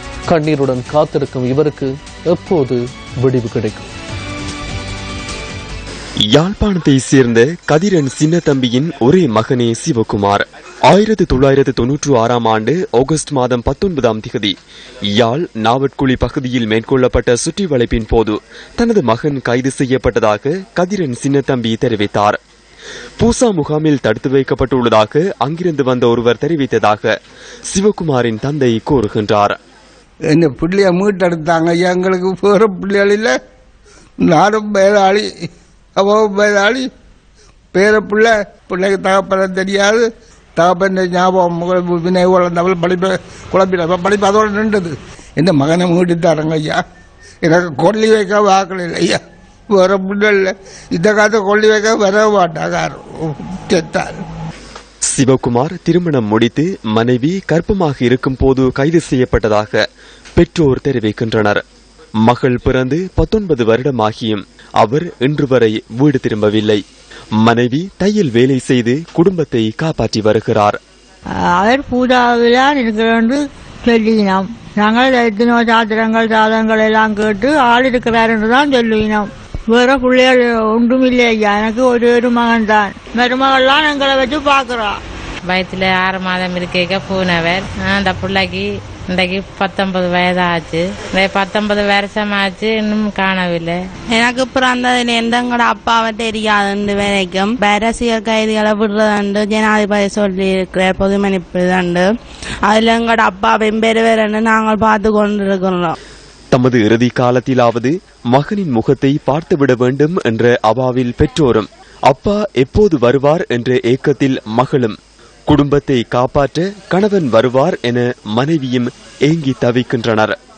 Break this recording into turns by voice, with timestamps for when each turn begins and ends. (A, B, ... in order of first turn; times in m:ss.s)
0:00.3-0:03.9 A
0:06.3-0:14.5 B
0:15.1-0:22.4 B
0:23.2-0:27.1 B
0:27.7-0:29.6 B
0:30.3-0:33.3 C
0:34.2-0:35.3 C
0:36.0-0:36.8 C
0:37.7-0:40.0 C
0:40.6-0:46.8 C
0:47.4-0:49.2 C
0:49.7-0:54.1 C
0:55.1-0:59.8 B
1:00.4-1:01.6 B
1:02.2-1:06.8 B
1:07.4-1:10.8 B
1:11.6-1:25.0 D
1:25.5-1:33.8 E
1:34.1-1:42.1 F
1:42.7-1:46.0 F
1:46.5-1:55.0 B
1:55.5-2:00.3 B